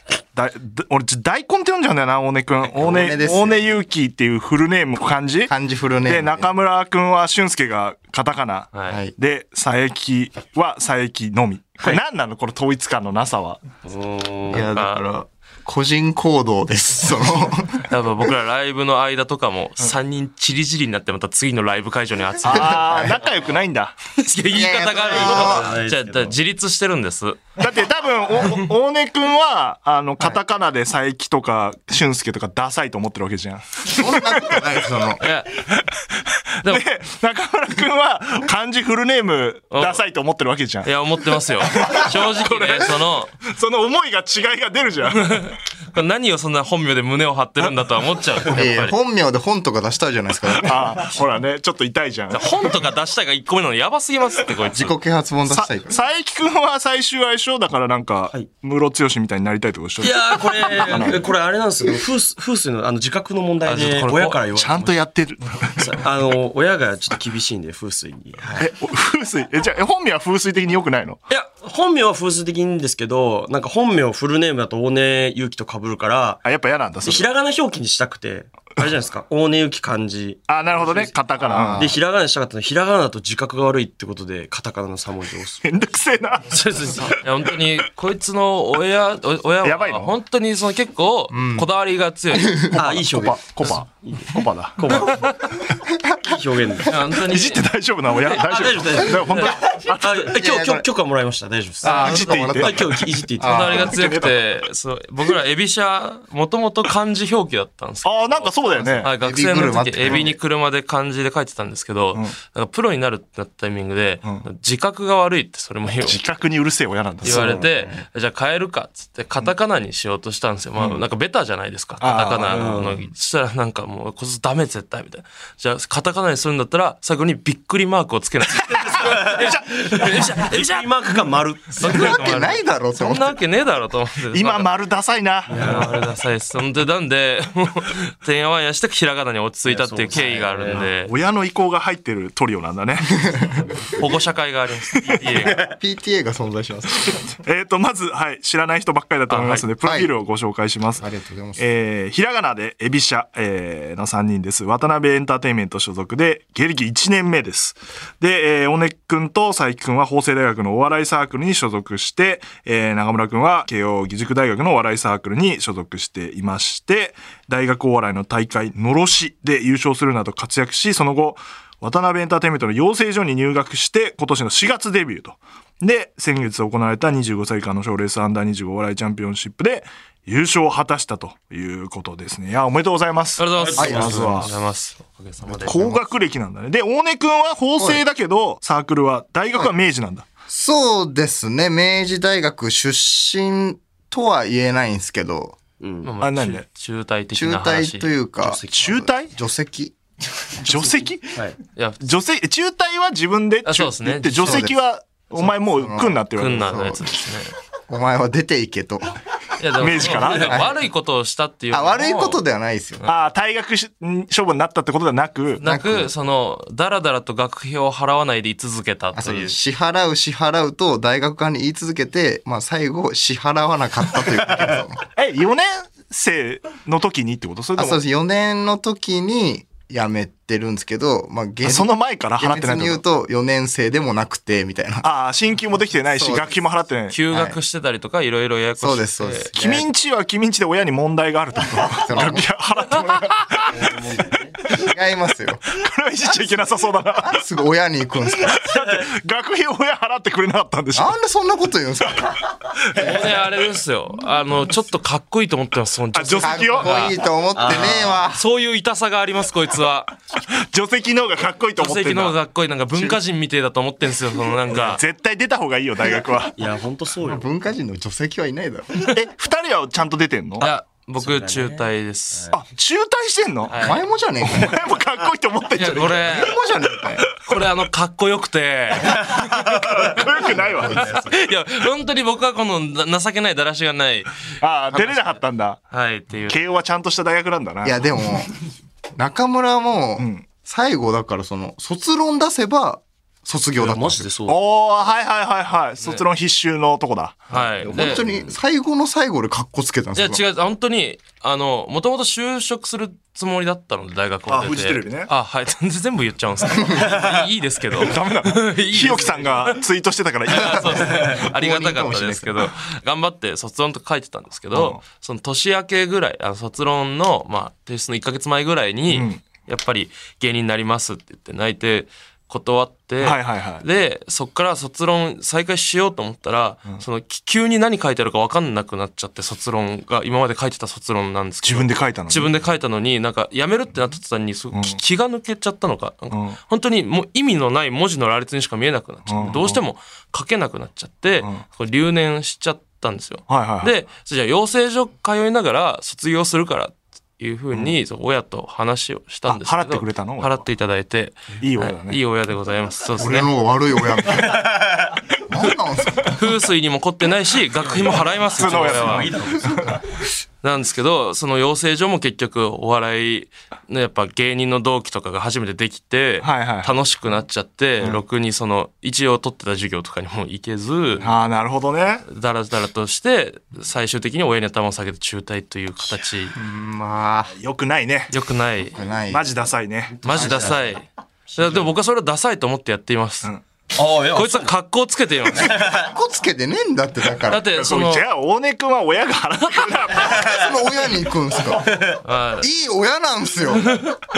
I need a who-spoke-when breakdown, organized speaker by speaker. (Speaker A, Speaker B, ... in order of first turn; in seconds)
Speaker A: 0.3-5.5, 6.0-13.6, 22.4-24.0, 27.6-34.6, 35.6-45.5, 50.6-52.6, 55.5-61.2, 64.5-66.0, 68.6-71.2, 76.4-77.3, 80.5-81.9, 85.6-87.0, 89.6-90.1, 92.9-95.1, 97.1-100.4, 101.9-103.0, 103.5-104.4, 108.0-109.1, 116.0-117.6, 120.8-121.0, 122.0-122.8, 128.6-129.8, 134.3-135.9, 140.7-143.5, 147.4-151.0, 151.6-184.5, 185.6-190.3, 196.2-196.6, 198.7-199.3, 200.6-201.3, 202.0-206.9, 209.7-210.7, 213.0-215.6, 225.1-228.0, 231.6-233.0, 235.0-237.2, 239.6-243.9, 245.7-247.4, 248.4-251.1, 252.9-253.2, 256.1-257.1, 260.6-262.4, 264.7-266.6, 269.0-270.7, 272.5-273.8, 274.4-276.4, 279.6-281.2, 284.6-285.8, 286.5-288.1, 290.2-290.4, 294.5-297.9, 304.5-305.3, 307.9-311.3, 314.7-315.0, 319.1-319.4, 323.2-323.8, 331.6-332.5, 334.7-335.0, 336.3-336.6, 339.3-339.8, 343.5-343.9, 349.5-350.6, 351.6-352.2, 358.5-359.9, 366.4-366.9, 371.2-372.2, 377.5-378.3, 379.3-380.3, 387.7-390.7
Speaker B: 2.7-3.6, 5.5-6.5, 8.9-9.1, 14.5-17.8, 22.5-23.2, 24.4-25.7, 33.9-35.2, 48.5-51.0, 54.7-55.9, 81.4-82.0, 91.3-91.7, 92.3-93.0, 100.3-100.8, 101.8-104.0, 109.2-110.4, 117.3-118.0, 131.8-133.4, 145.6-147.2, 149.8-150.1, 151.0-151.6, 183.8-184.4, 185.4-186.0, 187.8-188.0, 190.5-195.6, 197.3-199.9, 204.4-204.8, 205.5-207.1, 207.9-209.1, 210.4-210.8, 211.7-213.0, 215.6-216.1, 219.1-225.0, 227.8-235.1, 236.1-236.6, 237.3-237.6, 238.8-239.9, 241.9-242.5, 244.7-245.6, 247.2-248.7, 250.9-252.4, 256.4-258.4, 267.2-269.1, 273.8-274.9, 276.2-277.2, 287.8-288.5, 289.2-294.3, 297.9-300.4, 310.7-312.7, 353.2-354.7, 355.4-356.4, 376.5-377.5, 378.9-379.4, 380.3-380.9, 385.8-387.7, 390.2-392.0, 392.6-394.0
Speaker C: 13.8-14.7, 25.0-26.4, 60.0-65.0, 65.8-68.7, 71.3-76.4, 77.0-81.1, 81.8-85.9, 86.5-87.1, 92.7-95.3, 96.2-97.0, 98.4-103.9, 117.3-117.7, 122.5-123.0, 128.9-132.2, 135.5-136.0, 139.7-140.9, 145.4-145.7, 183.6-184.4, 195.8-196.1, 198.4-198.9, 201.3-201.6, 210.2-210.6, 243.7-244.6, 248.7-249.1, 257.5-258.2, 266.6-267.4, 271.2-272.6, 280.6-281.3, 293.8-294.6, 297.9-298.6, 306.9-307.4, 354.5-355.2, 358.1-360.0, 380.2-380.9, 381.5-381.9, 383.9-384.7, 385.6-386.1, 391.8-392.2
Speaker D: 14.5-15.0, 17.9-23.1, 24.2-27.6, 35.2-35.6, 39.7-40.0, 40.8-43.3, 45.2-48.9, 52.3-54.9, 60.5-61.1, 63.6-64.4, 86.7-92.7, 95.0-95.4, 96.8-99.5, 101.8-102.6, 103.4-116.2, 117.2-131.1, 131.8-134.7, 135.6-141.1, 143.9-145.7, 149.3-149.7, 183.4-185.8, 196.0-198.1, 201.7-202.0, 203.6-204.7, 206.3-207.5, 209.6-212.4, 215.6-219.6, 237.1-239.5, 252.9-257.2, 257.7-260.1, 261.8-265.0, 270.6-272.5, 273.7-274.0, 275.7-276.6, 277.3-284.3, 284.9-285.4, 285.9-286.6, 297.5-298.2, 300.1-309.8, 310.5-353.5, 356.3-359.4, 360.6-371.3, 372.3-376.5, 378.3-379.0, 380.2-381.0, 381.5-383.5, 384.3-385.8, 387.4-388.2, 392.2-392.7, 393.8-394.1